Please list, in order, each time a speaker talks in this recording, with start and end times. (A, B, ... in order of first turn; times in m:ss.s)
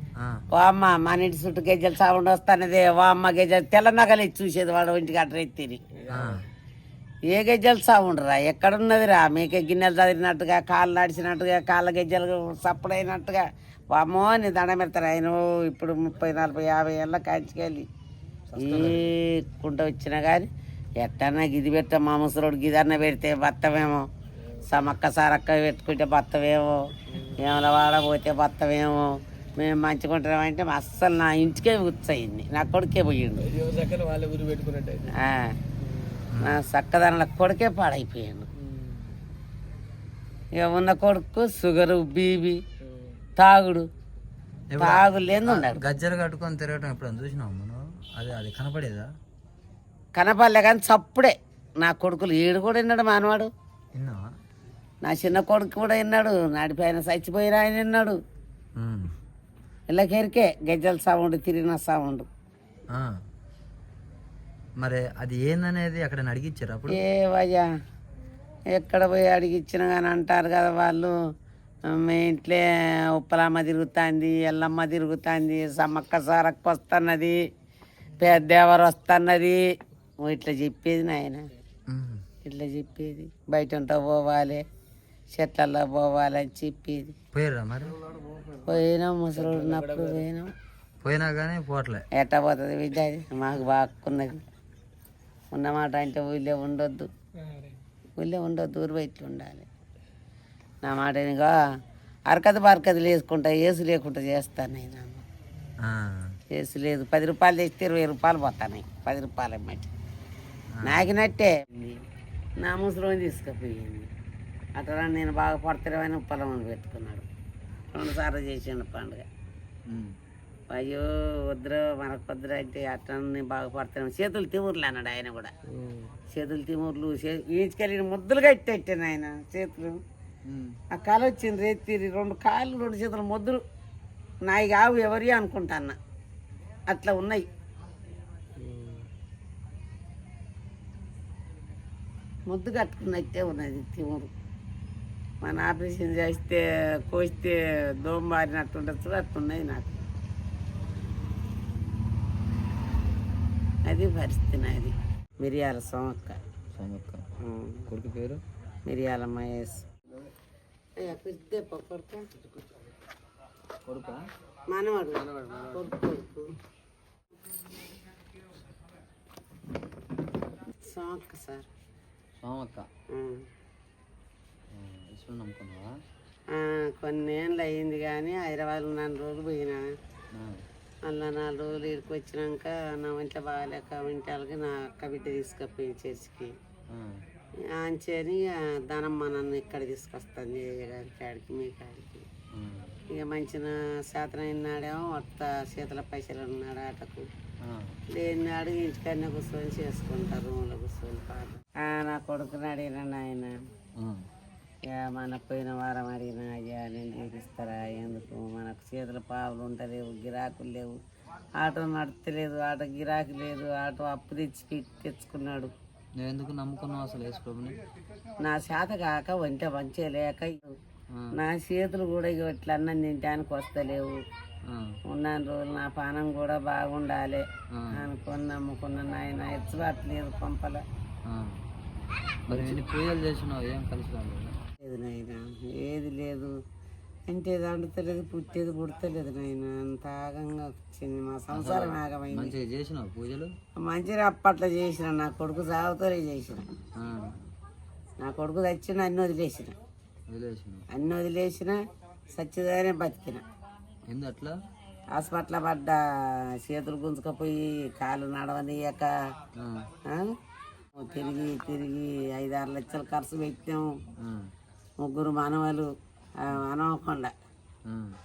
0:00.2-0:00.4 A
0:00.5-0:05.8 B
0:05.9-0:06.4 C
0:06.1-0:06.4 A
0:07.3-0:17.9 B
0:18.5-0:18.9 C
0:18.6-0:20.5 B
0:18.7-0:19.0 A
0:21.0-0:24.1 B
0:24.6-0:26.8 B
0:27.1-0:27.4 C
0:27.4-0:33.5 B
0:33.4-0:35.1 C
0:35.1-0:35.6 B
0:35.8-0:36.3 C
0:36.3-0:36.6 A
0:36.4-0:38.5 B
0:38.6-0:39.1 C
0:40.6-0:42.6 B
0:42.8-0:43.1 C
0:43.4-0:43.9 B
0:44.7-0:49.1 A
0:44.8-0:45.8 B
0:50.2-0:53.5 B
0:54.0-0:54.2 A
0:55.0-0:58.2 B
0:58.8-0:59.1 A
0:59.9-1:02.3 B
1:02.9-1:03.2 A
1:04.8-1:07.0 A
1:06.9-1:07.7 B
1:08.7-1:11.1 B
1:11.9-1:17.4 B
1:18.2-1:19.6 B
1:20.2-1:21.5 B
1:21.9-1:22.2 A
1:22.4-1:24.6 B
1:25.3-1:27.2 B
1:27.3-1:28.0 A
1:28.1-1:28.8 C
1:28.6-1:30.5 B
1:29.4-1:30.2 C
1:31.0-1:32.1 A
1:32.1-1:34.4 B
1:35.5-1:37.1 B
1:38.2-1:39.7 B
1:40.8-1:41.6 B
1:42.3-1:45.2 B
1:45.8-1:46.4 A
1:46.5-1:49.9 B
1:50.8-1:51.1 A
1:50.8-1:52.0 B
1:52.6-1:54.1 B
1:54.8-1:57.3 B
1:57.9-1:59.2 B
1:59.9-2:00.2 A
2:00.7-2:05.5 B
2:05.7-2:06.1 C
2:06.3-2:10.0 B
2:10.5-2:10.8 A
2:10.9-2:13.6 B
2:14.4-2:16.0 B
2:16.9-2:17.4 B
2:18.6-2:19.1 C
2:22.5-2:24.3 B
2:25.4-2:30.0 B
2:33.9-2:36.4 B
2:36.8-2:37.3 A
2:37.4-2:37.9 B
2:37.9-2:38.4 A
2:38.9-2:39.9 B
2:41.0-2:42.2 B
2:43.8-2:44.2 A
2:44.7-2:46.5 B
2:45.3-2:45.8 C
2:50.8-2:51.7 B
2:52.4-2:52.9 A
2:53.1-2:53.4 B
2:54.7-2:56.0 A
2:56.5-2:59.9 B
3:00.3-3:00.6 A
3:01.1-3:06.5 B
3:06.9-3:07.2 A
3:07.6-3:12.3 B
3:12.5-3:13.0 A
3:13.1-3:17.3 B
3:17.6-3:18.0 A
3:18.1-3:23.6 B
3:24.0-3:24.2 A
3:24.9-3:31.0 B
3:31.6-3:35.7 B
3:36.2-3:37.8 A
3:38.4-3:40.8 B
3:41.3-3:44.2 B
3:44.7-3:45.0 A
3:45.1-3:50.8 B
3:47.7-3:48.0 A
3:51.3-3:51.6 A
3:52.5-3:54.6 A
3:54.8-3:56.5 B
3:57.3-4:02.6 B
4:01.5-4:03.5 A
4:03.8-4:06.7 B
4:07.0-4:07.4 A
4:08.2-4:09.8 B
4:10.3-4:10.8 A
4:10.9-4:11.8 B
4:12.3-4:13.4 B
4:14.1-4:14.6 A
4:15.2-4:19.1 B
4:19.6-4:19.9 A
4:20.1-4:20.3 B
4:20.9-4:23.9 B
4:24.2-4:24.5 A
4:25.0-4:25.9 B
4:26.4-4:27.3 B
4:27.9-4:28.2 A